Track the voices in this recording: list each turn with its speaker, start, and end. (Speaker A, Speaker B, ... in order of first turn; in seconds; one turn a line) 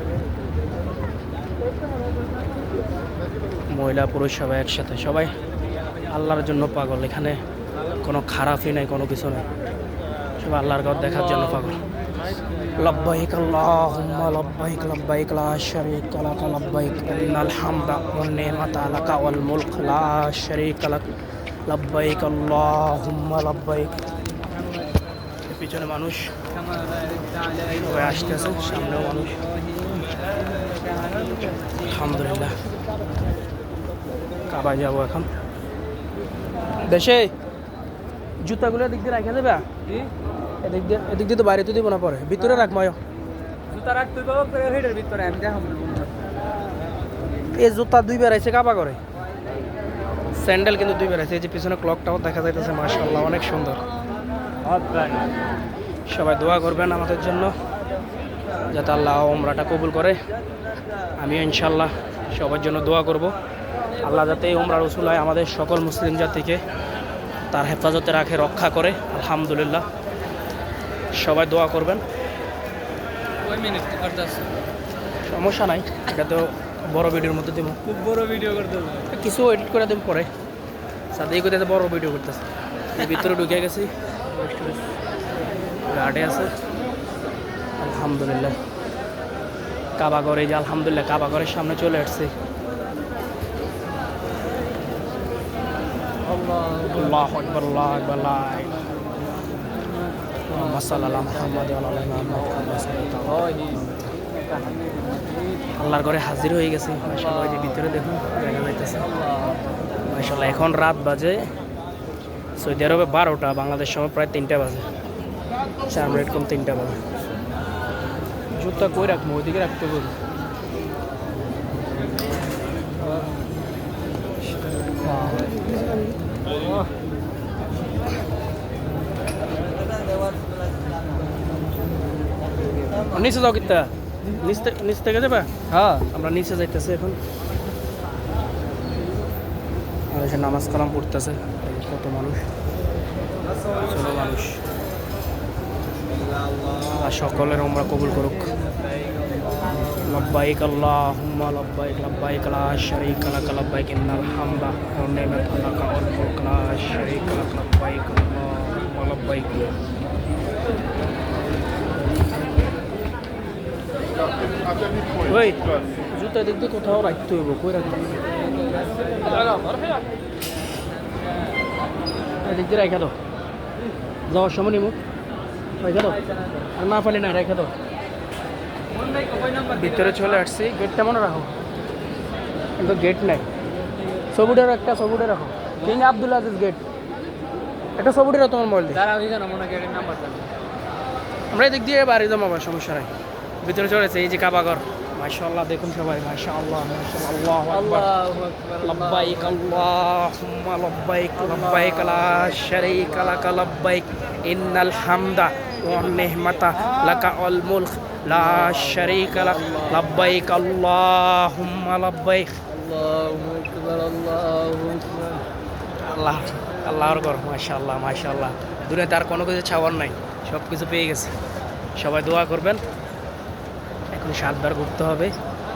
Speaker A: 3.7-5.3
Speaker A: 6.1-7.4
Speaker A: 8.0-9.4
Speaker A: 10.4-11.8
Speaker A: 12.8-21.1
Speaker A: 21.7-24.0
Speaker A: 25.4-26.3
Speaker B: 26.5-31.8
Speaker A: 27.7-29.4
Speaker A: 31.4-32.6
Speaker A: 34.5-35.3
Speaker A: 36.8-37.3
Speaker A: 38.4-39.6
Speaker A: 40.6-43.0
Speaker B: 43.7-46.1
Speaker A: 47.5-49.0
Speaker A: 50.4-53.9
Speaker B: 54.6-55.3
Speaker A: 56.1-57.5
Speaker A: 58.7-60.2
Speaker A: 61.2-63.3
Speaker A: 64.0-66.6
Speaker A: 67.5-69.8
Speaker A: 71.1-72.0
Speaker B: 73.4-74.5
Speaker A: 75.3-77.8
Speaker B: 77.8-79.1
Speaker A: 79.1-80.3
Speaker A: 81.1-82.4
Speaker A: 83.0-83.9
Speaker B: 84.4-84.7
Speaker A: 85.9-86.5
Speaker A: 87.8-88.6
Speaker A: 90.0-92.3
Speaker B: 96.3-97.2
Speaker A: 96.9-98.8
Speaker A: 100.5-104.1
Speaker B: 100.6-101.6
Speaker B: 103.2-105.6
Speaker A: 105.8-109.0
Speaker A: 110.0-111.5
Speaker A: 112.6-114.9
Speaker A: 115.9-117.0
Speaker A: 118.6-120.2
Speaker B: 125.1-125.5
Speaker A: 133.1-135.5
Speaker B: 135.7-136.1
Speaker A: 136.1-137.2
Speaker A: 140.1-142.4
Speaker A: 143.8-144.6
Speaker A: 146.9-148.6
Speaker A: 150.0-159.7
Speaker A: 165.3-168.3
Speaker A: 169.2-169.7
Speaker A: 172.4-173.1
Speaker A: 174.3-174.9
Speaker A: 175.8-176.2
Speaker A: 176.8-177.7
Speaker B: 178.9-180.4
Speaker A: 179.7-181.5
Speaker A: 182.8-183.4
Speaker A: 184.3-186.8
Speaker A: 188.0-189.0
Speaker B: 188.9-190.5
Speaker A: 191.5-193.1
Speaker A: 193.6-198.1
Speaker B: 197.7-199.9
Speaker A: 198.8-212.6
Speaker B: 201.7-202.2
Speaker B: 208.5-210.1
Speaker B: 212.7-215.4
Speaker A: 216.0-221.4
Speaker A: 222.0-222.8
Speaker A: 224.1-225.3